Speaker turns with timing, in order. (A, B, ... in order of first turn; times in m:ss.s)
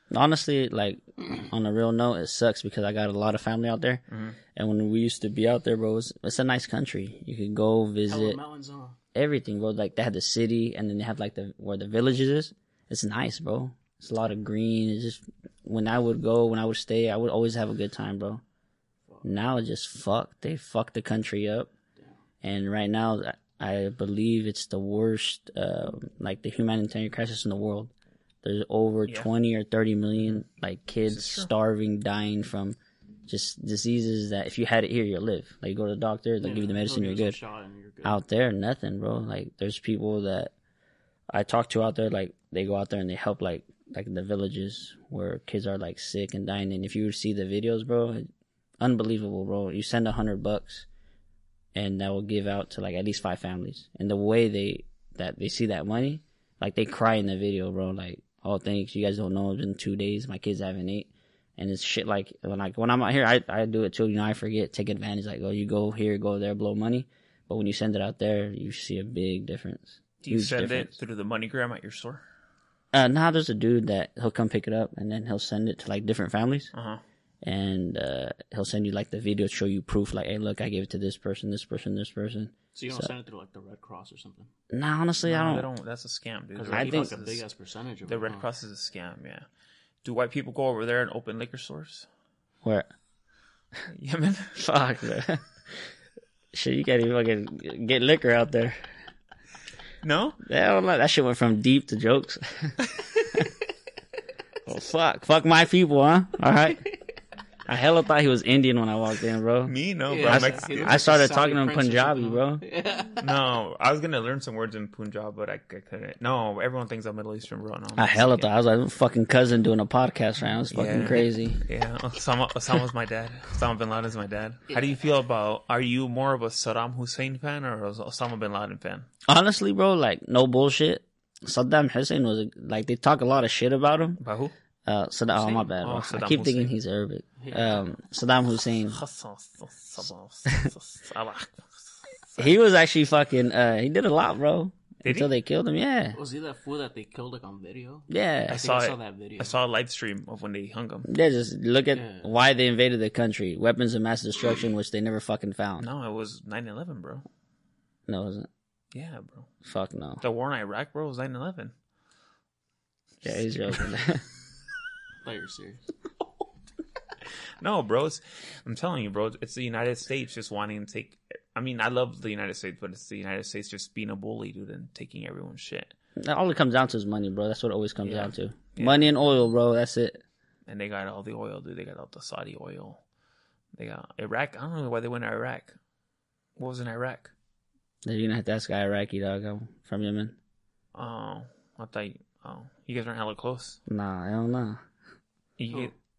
0:00.1-0:04.0 A
0:04.1-0:04.4 B
0:04.5-0:08.4 A
0:08.1-0:09.0 C
0:09.2-0:18.4 A
0:19.2-0:21.7 A
0:22.0-0:22.2 C
0:22.4-0:27.9 A
0:28.4-0:37.4 A
0:31.0-0:31.5 B
0:36.4-0:38.2 C
0:38.0-0:40.5 A
0:41.3-0:48.3 A
0:48.8-0:50.9 A
0:51.8-1:10.9 A
1:10.2-1:12.2 B
1:12.9-1:16.7 A
1:16.7-1:17.0 B
1:17.4-1:23.1 A
1:22.7-1:24.5 C
1:24.7-1:25.7 A
1:25.2-1:27.4 B
1:26.6-1:28.5 C
1:26.7-1:27.1 A
1:28.0-1:29.5 B
1:30.0-1:32.1 B
1:32.6-1:32.9 A
1:33.9-1:34.6 B
1:34.6-1:35.9 A
1:36.5-1:38.8 A
1:40.0-1:40.4 B
1:40.4-1:42.8 A
1:44.7-1:46.8 A
1:47.7-1:52.6 A
1:49.7-1:51.1 B
1:50.1-1:53.3 C
1:53.2-1:58.5 B
1:58.0-2:01.6 A
2:00.7-2:09.1 B
2:09.2-2:14.2 A
2:14.2-2:14.5 B
2:14.8-2:19.0 A
2:15.3-2:16.7 B
2:17.4-2:18.0 C
2:18.9-2:22.5 B
2:22.4-2:26.2 A
2:25.0-2:25.3 B
2:26.2-2:29.6 C
2:28.1-2:28.6 A
2:28.5-2:31.1 B
2:31.1-2:35.9 A
2:31.9-2:32.3 C
2:35.8-2:37.2 B
2:38.1-2:38.5 A
2:38.9-2:39.5 B
2:39.6-2:40.2 A
2:40.2-2:41.7 B
2:43.2-2:43.9 B
2:43.2-2:44.2 A
2:45.2-2:45.8 C
2:47.6-2:55.9 B
2:56.2-3:00.2 A
2:58.0-2:59.1 B
3:00.7-3:03.0 B
3:03.7-3:05.8 B
3:06.6-3:07.3 B
3:08.0-3:10.4 A
3:10.9-3:13.8 B
3:13.9-3:14.8 A
3:15.6-3:15.9 B